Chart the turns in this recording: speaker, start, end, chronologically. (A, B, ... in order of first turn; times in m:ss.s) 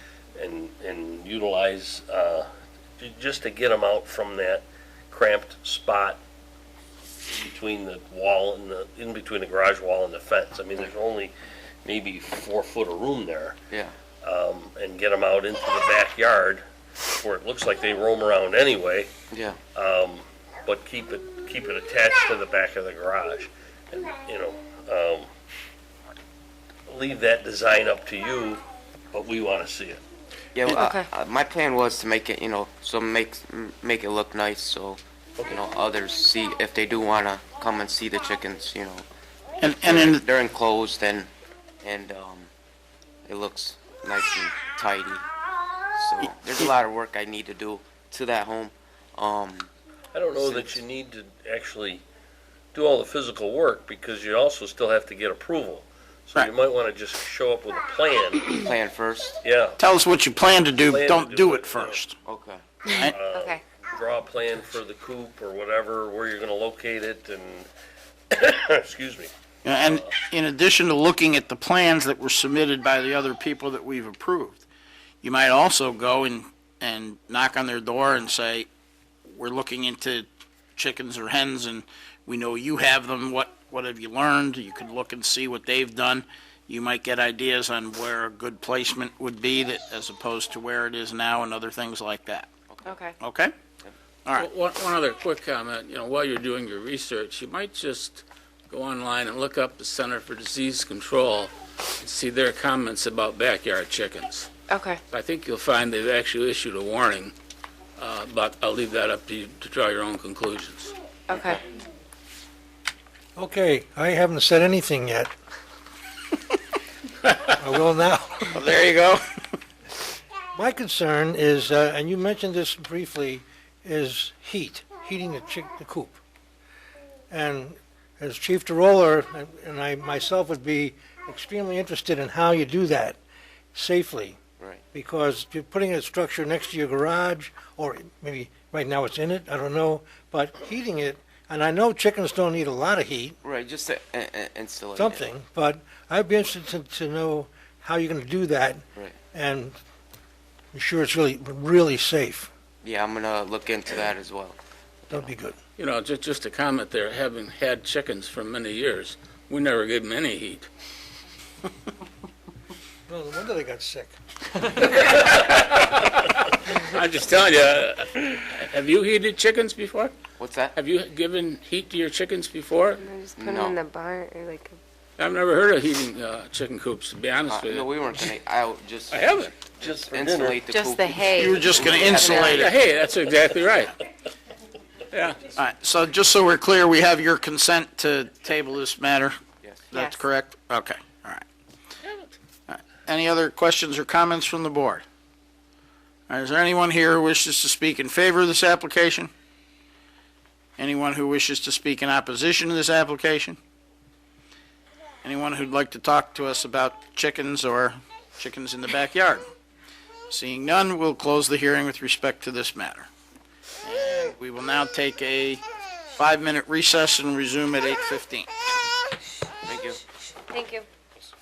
0:00.4-0:06.2 A
0:07.3-0:11.3 A
0:11.8-0:13.6 A
0:13.7-0:13.9 B
0:14.2-0:19.1 A
0:19.3-0:19.6 B
0:19.7-0:25.3 A
0:26.9-0:30.0 A
0:30.5-0:39.0 B
0:30.8-0:31.1 C
0:39.6-0:40.2 D
0:39.8-0:41.3 B
0:41.8-0:42.5 B
0:43.3-0:45.2 B
0:45.9-0:49.7 B
0:50.1-0:52.0 A
0:50.4-0:50.8 B
0:52.7-0:58.6 A
0:58.5-0:59.4 B
0:59.4-0:59.8 A
0:59.8-1:02.2 D
1:00.8-1:02.0 A
1:02.2-1:02.6 B
1:02.9-1:03.2 D
1:02.9-1:03.6 C
1:03.0-1:07.7 A
1:08.3-1:09.3 A
1:09.6-1:14.6 D
1:09.8-1:10.1 A
1:15.2-1:18.7 D
1:19.2-1:32.5 D
1:32.7-1:33.0 B
1:32.8-1:33.2 C
1:33.2-1:33.5 D
1:34.3-1:44.5 E
1:44.7-1:45.0 C
1:45.1-1:47.3 E
1:48.0-1:50.9 E
1:51.3-1:51.6 C
1:53.4-1:55.3 F
1:57.2-1:57.5 D
1:57.6-1:58.5 F
1:58.4-1:59.2 D
2:00.5-2:06.2 F
2:07.3-2:13.2 F
2:13.7-2:14.4 F
2:14.6-2:14.8 B
2:14.9-2:23.4 F
2:23.4-2:25.3 B
2:25.0-2:29.8 F
2:30.7-2:32.5 F
2:32.8-2:35.3 B
2:35.1-2:35.6 F
2:35.8-2:40.7 E
2:43.1-2:44.1 F
2:44.8-2:50.1 E
2:50.4-2:50.7 B
2:50.7-2:53.0 E
2:53.0-2:54.8 C
2:53.4-2:53.8 B
2:55.2-2:58.0 E
2:57.5-3:02.5 B
2:59.1-2:59.5 E
2:59.8-3:00.6 A
3:00.7-3:02.6 C
3:01.4-3:02.7 D
3:02.5-3:03.9 E
3:05.1-3:05.5 E
3:05.5-3:09.4 D
3:09.6-3:09.9 B
3:09.9-3:11.4 D
3:09.9-3:10.2 C
3:12.0-3:12.3 E
3:12.7-3:15.0 D
3:16.3-3:19.3 D
3:20.8-3:23.6 D
3:25.2-3:29.5 D
3:30.3-3:33.1 D
3:33.8-3:35.6 D
3:36.1-3:38.5 D
3:39.6-3:40.0 B
3:40.3-3:40.9 C